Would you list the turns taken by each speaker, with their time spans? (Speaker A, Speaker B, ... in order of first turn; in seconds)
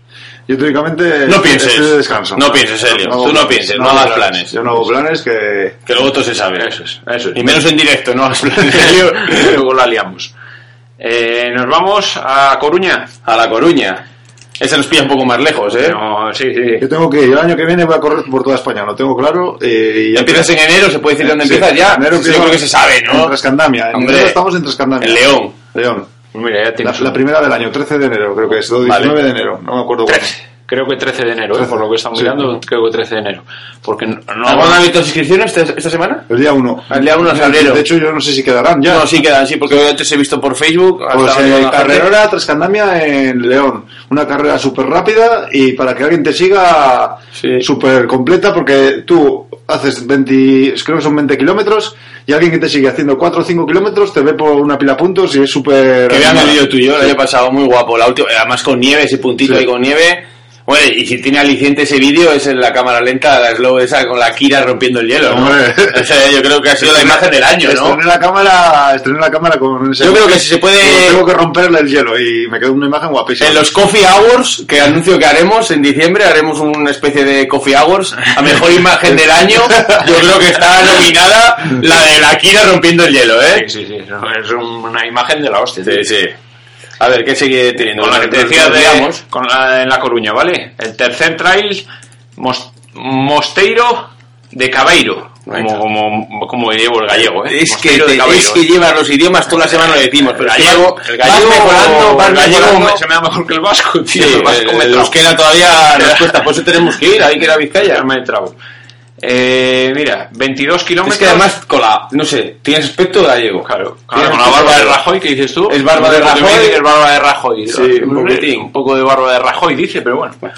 Speaker A: 0.5-5.8, 16.8-20.5, 21.2-26.1, 26.8-30.3, 31.6-32.3, 36.3-39.1, 41.1-57.1, 65.2-66.0, 66.8-73.7
Speaker B: 1.3-4.5, 5.8-6.7, 7.3-9.6, 13.2-14.0, 14.6-16.0, 20.1-23.3, 23.9-24.4, 25.0-25.5, 28.8-29.1, 34.5-36.3, 36.9-37.8, 38.9-42.1, 47.4-47.6, 56.1-68.0, 70.0-71.2, 73.4-83.6, 85.8-86.3, 87.0-89.2, 95.5-95.8, 97.4-103.0, 104.1-108.0, 111.0-115.0, 115.7-116.8, 117.7-118.7
Speaker C: 6.6-7.6, 8.7-10.3, 11.0-13.1, 15.8-16.8, 26.3-27.1, 30.1-34.8, 83.5-86.0, 88.0-91.8, 92.4-98.6, 100.2-105.3, 105.9-106.5, 107.8-108.5, 109.2-111.5, 113.6-120.4